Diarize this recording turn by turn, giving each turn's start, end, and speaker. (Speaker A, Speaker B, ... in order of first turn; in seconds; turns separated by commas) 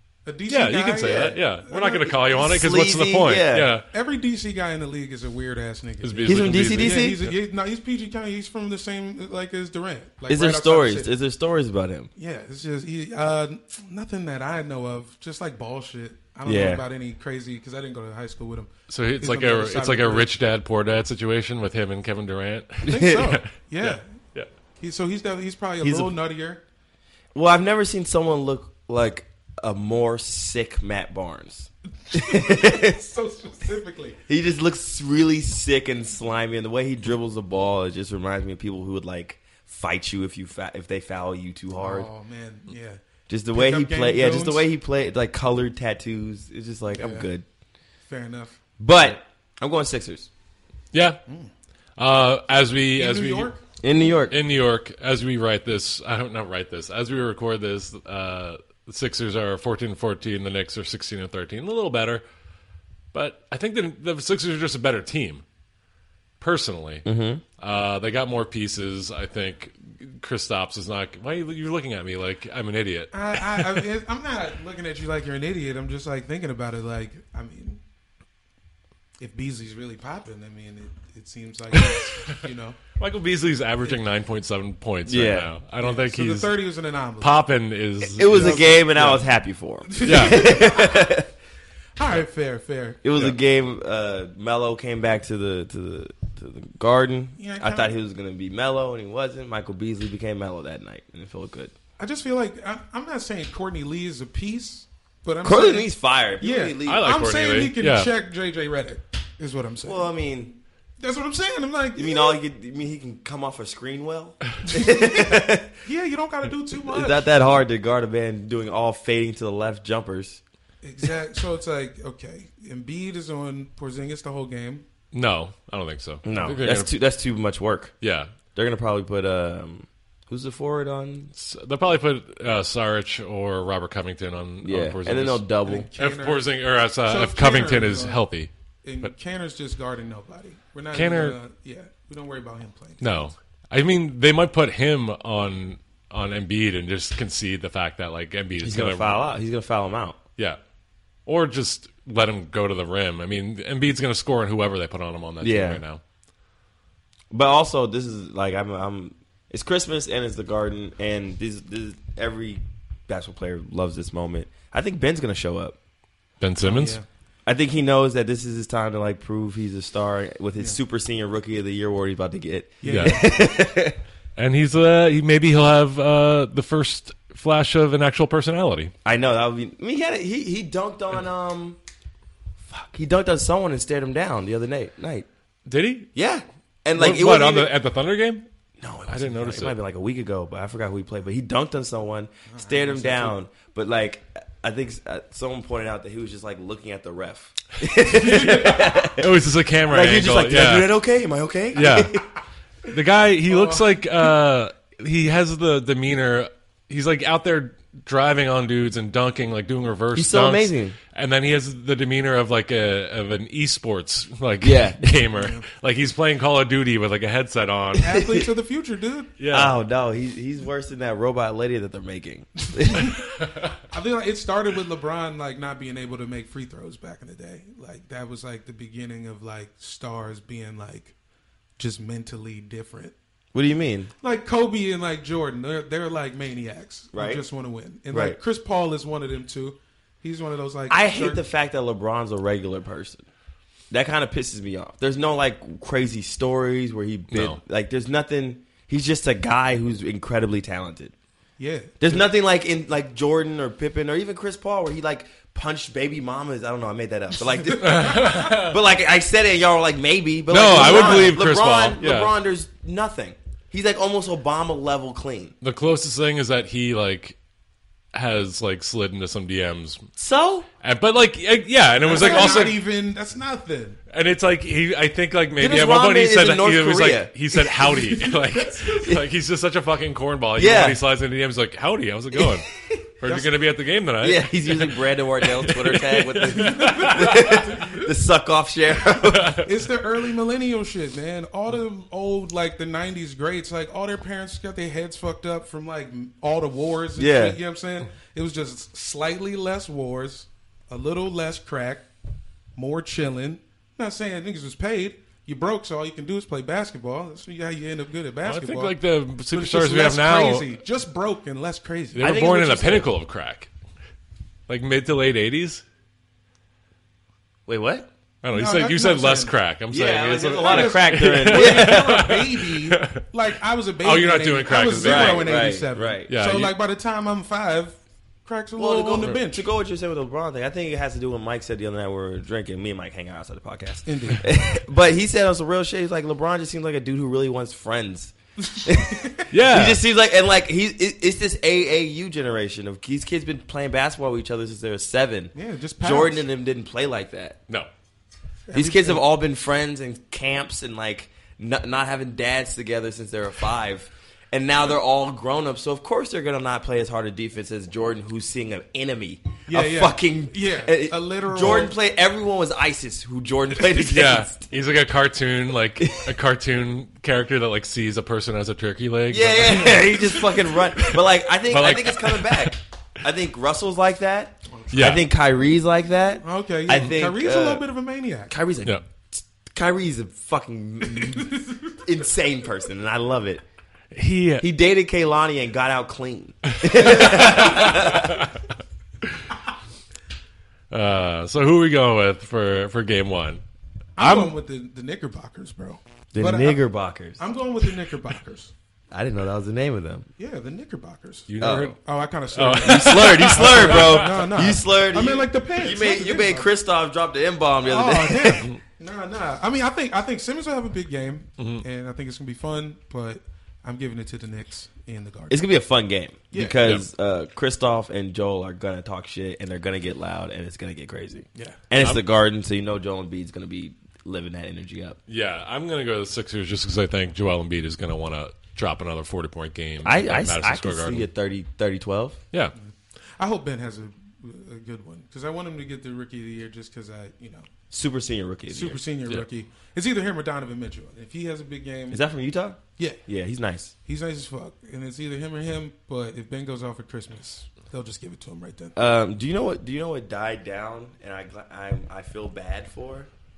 Speaker A: 0.3-2.4, Speaker B: 0.5-3.9, Speaker C: 1.0-1.4, Speaker C: 2.4-3.7, Speaker A: 3.9-11.1, Speaker B: 6.0-7.3, Speaker C: 6.3-7.2, Speaker C: 10.3-12.1, Speaker A: 12.2-20.3, Speaker C: 16.5-16.8, Speaker B: 18.9-24.5, Speaker C: 22.9-23.2, Speaker A: 22.9-24.1, Speaker A: 24.8-26.6, Speaker C: 25.8-26.1, Speaker C: 27.3-32.9, Speaker A: 32.1-34.2, Speaker C: 34.3-42.1, Speaker A: 41.8-44.7, Speaker C: 43.3-47.5, Speaker A: 46.9-47.3, Speaker A: 48.1-48.6, Speaker C: 48.8-50.3, Speaker B: 50.9-51.2, Speaker B: 52.0-53.5, Speaker A: 53.0-53.6, Speaker C: 53.8-54.4, Speaker B: 54.3-62.2, Speaker B: 63.1-65.4, Speaker B: 66.4-67.1, Speaker C: 67.0-67.4, Speaker B: 67.6-73.8, Speaker A: 73.1-77.8, Speaker A: 79.2-82.8, Speaker B: 81.7-82.4, Speaker B: 83.0-86.6, Speaker C: 85.1-85.5, Speaker A: 85.8-87.4, Speaker B: 87.2-88.8, Speaker C: 88.0-91.3, Speaker A: 88.3-89.2, Speaker A: 89.9-91.1, Speaker B: 90.0-90.5, Speaker A: 92.0-93.0, Speaker C: 93.0-101.7, Speaker A: 97.4-98.0, Speaker A: 102.0-110.1, Speaker C: 105.4-107.1, Speaker B: 106.9-108.1, Speaker C: 109.8-110.5, Speaker A: 111.0-112.4, Speaker C: 112.0-115.8, Speaker A: 114.7-117.3, Speaker C: 116.8-120.4, Speaker A: 120.8-124.8, Speaker B: 125.1-126.9, Speaker C: 126.2-127.9, Speaker B: 128.0-128.3, Speaker C: 128.6-131.3, Speaker B: 131.4-138.5, Speaker C: 134.6-135.9, Speaker A: 135.7-136.5, Speaker A: 137.1-138.2, Speaker A: 138.8-143.1, Speaker B: 140.9-141.4, Speaker B: 143.0-149.3, Speaker C: 148.6-150.2, Speaker B: 151.3-156.0, Speaker C: 155.4-155.8, Speaker C: 157.3-165.8, Speaker B: 166.4-167.0, Speaker A: 166.6-167.1, Speaker C: 167.5-174.0, Speaker A: 172.8-173.3, Speaker B: 172.9-173.2, Speaker B: 174.4-178.9, Speaker C: 179.1-181.8, Speaker C: 182.7-185.3, Speaker B: 185.7-186.1, Speaker C: 186.2-187.7, Speaker B: 186.9-188.5, Speaker C: 188.8-199.3, Speaker B: 189.1-189.8, Speaker A: 192.5-193.4, Speaker A: 198.2-198.8, Speaker B: 199.2-200.9, Speaker C: 199.9-202.3, Speaker B: 201.7-202.1, Speaker B: 202.9-218.2, Speaker A: 203.5-203.9, Speaker C: 210.2-211.0, Speaker C: 214.6-215.1, Speaker A: 215.4-215.7, Speaker A: 218.0-219.3, Speaker C: 218.1-218.5, Speaker B: 219.4-219.8, Speaker C: 219.5-223.1, Speaker A: 222.8-223.2, Speaker A: 223.9-231.1, Speaker A: 231.8-233.1, Speaker C: 233.5-234.1, Speaker A: 234.2-241.4, Speaker C: 237.1-237.4, Speaker C: 238.1-238.4, Speaker C: 240.9-243.2, Speaker C: 243.9-251.1, Speaker B: 247.3-247.6, Speaker A: 251.6-252.0, Speaker C: 252.0-265.6, Speaker B: 257.8-258.8, Speaker B: 260.5-262.3, Speaker A: 260.7-261.4, Speaker B: 265.6-267.4, Speaker B: 268.1-270.0, Speaker C: 270.2-270.7, Speaker B: 270.8-272.8, Speaker A: 272.0-274.0, Speaker C: 272.1-272.7, Speaker B: 274.1-282.7, Speaker C: 275.6-277.9, Speaker A: 278.5-279.0, Speaker C: 280.6-281.0, Speaker B: 283.2-287.7, Speaker A: 283.2-283.5, Speaker C: 284.2-289.6, Speaker A: 286.6-287.9, Speaker A: 289.6-302.1, Speaker C: 297.2-297.6, Speaker A: 302.8-309.0, Speaker B: 308.4-310.7, Speaker A: 309.5-312.4, Speaker B: 312.2-313.7, Speaker C: 312.2-313.1, Speaker B: 314.7-315.8, Speaker C: 317.7-318.1, Speaker B: 318.4-323.2, Speaker A: 318.5-319.6, Speaker C: 319.9-322.4, Speaker A: 320.6-329.6, Speaker B: 324.0-325.8, Speaker C: 324.9-326.3, Speaker B: 326.3-326.7, Speaker C: 328.8-347.6, Speaker A: 334.1-334.5, Speaker A: 338.7-339.4, Speaker B: 339.5-340.0, Speaker A: 345.5-346.5, Speaker A: 348.7-349.3, Speaker C: 348.7-364.6, Speaker A: 359.7-361.9, Speaker B: 363.9-372.8, Speaker C: 366.0-366.3, Speaker C: 369.3-377.8, Speaker A: 374.7-375.0, Speaker B: 374.9-375.3, Speaker A: 376.4-378.5, Speaker C: 378.5-383.6, Speaker A: 381.5-381.8, Speaker B: 384.1-384.7, Speaker C: 384.6-388.5, Speaker B: 386.9-388.4, Speaker B: 390.9-393.6, Speaker A: 394.2-396.8, Speaker B: 394.2-394.5, Speaker C: 396.3-397.4, Speaker A: 397.4-398.7, Speaker C: 399.1-400.3, Speaker A: 400.4-406.7, Speaker B: 401.5-402.0, Speaker C: 401.6-402.0, Speaker B: 402.5-404.3, Speaker C: 402.8-408.7, Speaker A: 407.8-415.6, Speaker B: 411.6-411.9, Speaker C: 415.5-425.2, Speaker A: 416.5-416.8, Speaker B: 422.0-422.2, Speaker B: 425.3-431.3, Speaker C: 430.0-432.4, Speaker A: 432.8-437.7, Speaker C: 437.9-439.0, Speaker A: 438.7-442.2, Speaker C: 442.1-443.9, Speaker A: 444.1-449.0, Speaker C: 449.0-453.3